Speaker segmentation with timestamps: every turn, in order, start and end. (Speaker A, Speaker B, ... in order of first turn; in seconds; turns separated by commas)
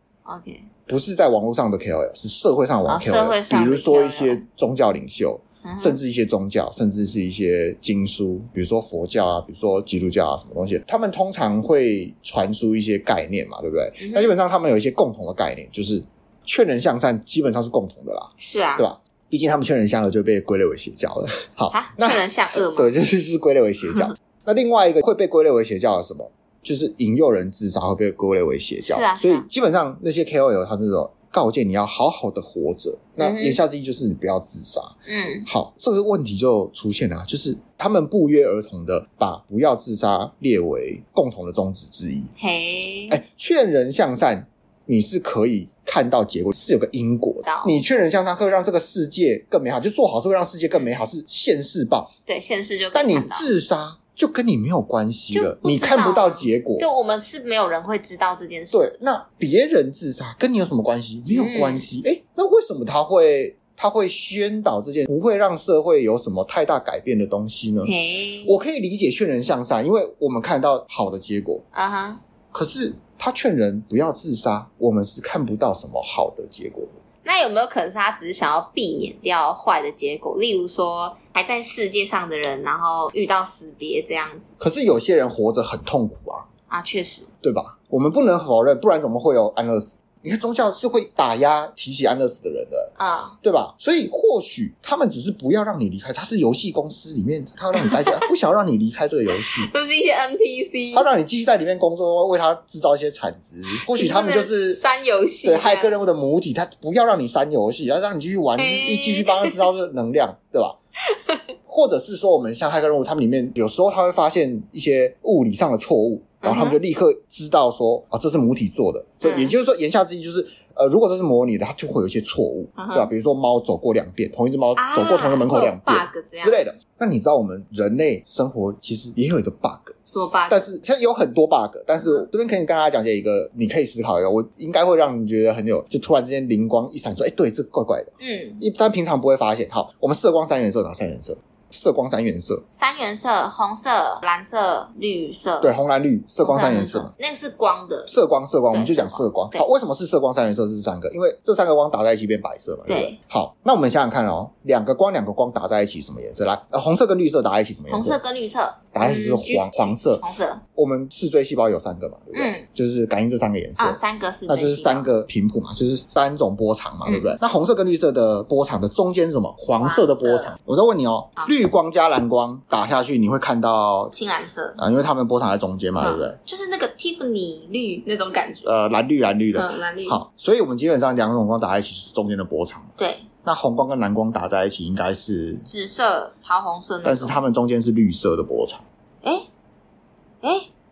Speaker A: 0.3-0.7, Speaker B: 0.9-35.0, Speaker A: 2.9-4.4, Speaker A: 5.6-6.0, Speaker A: 14.0-14.3, Speaker A: 18.4-18.9, Speaker A: 21.7-23.0, Speaker A: 28.8-29.5, Speaker A: 33.2-33.6, Speaker A: 35.1-35.5, Speaker B: 35.5-42.3, Speaker A: 42.4-43.2, Speaker B: 43.1-52.1, Speaker A: 47.4-47.8, Speaker A: 52.1-53.5, Speaker B: 52.9-56.9, Speaker A: 55.3-58.9, Speaker B: 58.7-67.9, Speaker A: 61.3-61.9, Speaker A: 67.8-68.6, Speaker B: 68.4-71.6, Speaker A: 71.7-72.2, Speaker B: 72.5-76.9, Speaker A: 77.2-84.5, Speaker B: 84.6-86.5, Speaker A: 86.7-87.3, Speaker B: 87.4-99.7, Speaker A: 93.0-93.4, Speaker A: 97.8-98.2, Speaker A: 99.4-101.1, Speaker B: 100.9-104.8, Speaker A: 103.7-105.9, Speaker B: 105.5-110.8, Speaker A: 108.6-109.7, Speaker A: 111.1-111.4, Speaker B: 111.7-129.9, Speaker A: 116.4-116.8, Speaker A: 119.2-119.6, Speaker A: 122.8-123.1, Speaker A: 124.8-126.6, Speaker A: 130.1-130.7, Speaker B: 130.5-142.6, Speaker A: 132.0-132.3, Speaker A: 138.2-138.6, Speaker A: 142.7-145.7, Speaker B: 145.6-147.1, Speaker A: 146.4-148.1, Speaker B: 148.1-158.2, Speaker A: 148.7-149.7, Speaker A: 152.9-153.2, Speaker A: 157.9-160.6, Speaker B: 158.9-160.2, Speaker B: 160.8-174.1, Speaker A: 162.3-162.7, Speaker A: 163.8-165.1, Speaker A: 167.1-167.3, Speaker A: 169.8-170.6, Speaker A: 174.1-174.8, Speaker B: 174.8-176.4, Speaker A: 176.0-178.7, Speaker B: 178.6-182.9, Speaker A: 179.6-180.2, Speaker A: 183.0-183.3, Speaker B: 183.4-185.7, Speaker A: 185.7-187.4, Speaker B: 187.0-188.8, Speaker A: 190.4-190.7